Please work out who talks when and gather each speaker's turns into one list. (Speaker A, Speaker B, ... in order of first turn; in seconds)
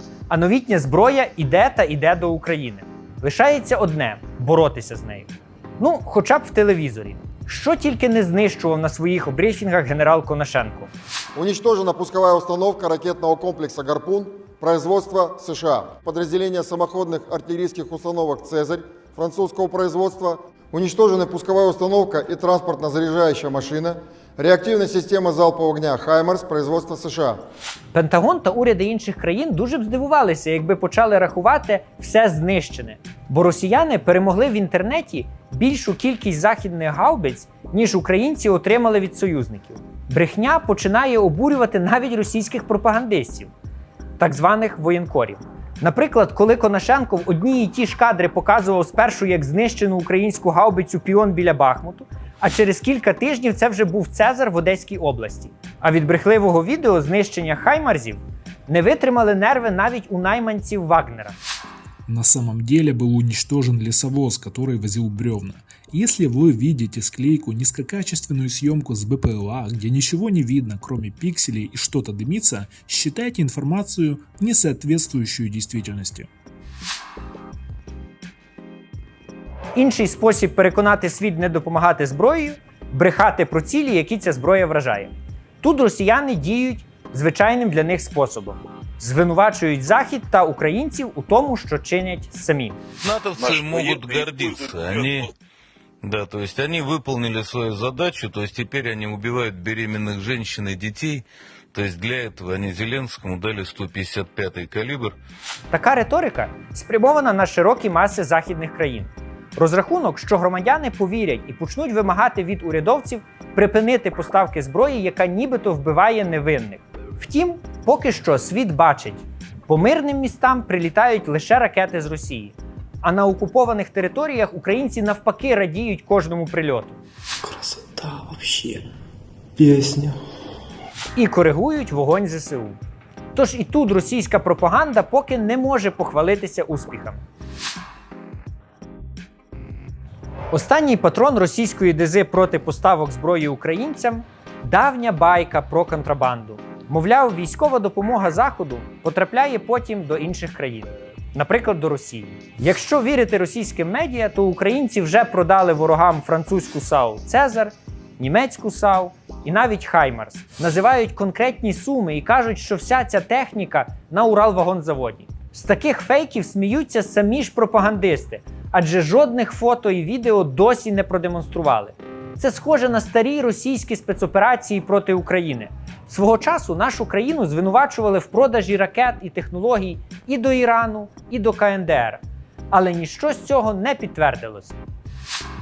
Speaker A: 0.3-10.9, 27.9-43.5, 44.2-61.4, 79.8-92.8, 105.7-127.0, 131.2-132.8, 133.3-137.2, 140.5-184.8
Speaker B: 11.3-27.4
Speaker C: 62.1-76.3
Speaker D: 93.0-95.3, 96.0-105.2
Speaker E: 127.4-128.8, 129.6-130.2